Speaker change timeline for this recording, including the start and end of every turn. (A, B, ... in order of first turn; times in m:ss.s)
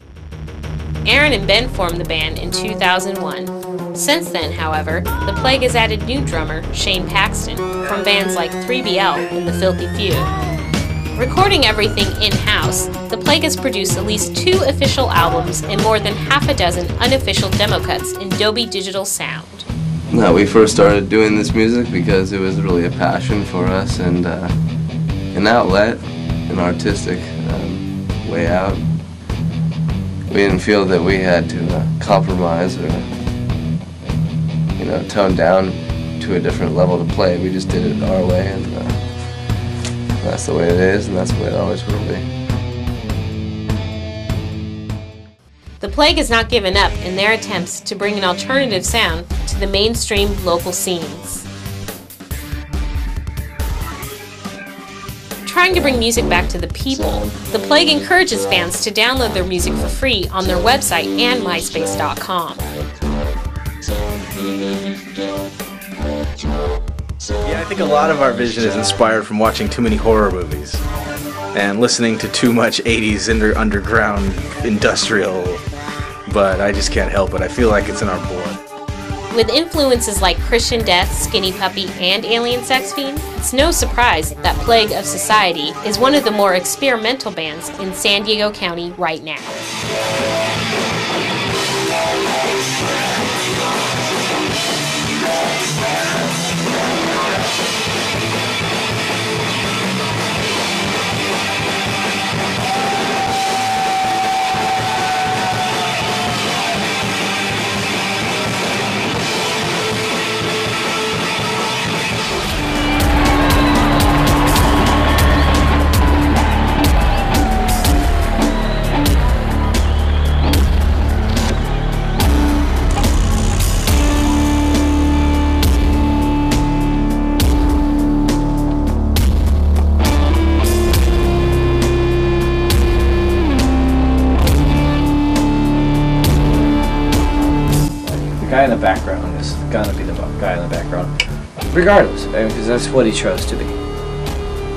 0:01.0-0:10.3 A
0:11.2-0:19.6 A
0:20.1-0:24.5 B
0:25.3-0:28.8 B
0:30.3-0:33.1 B
0:34.8-0:39.0 B
0:40.2-0:42.2 B
0:45.8-0:51.5 A
0:55.4-1:02.6 A
1:07.4-1:10.8 C
1:11.5-1:15.6 C
1:16.3-1:18.6 C
1:19.3-1:29.6 A
2:18.0-2:21.1 D
2:21.7-2:23.8 D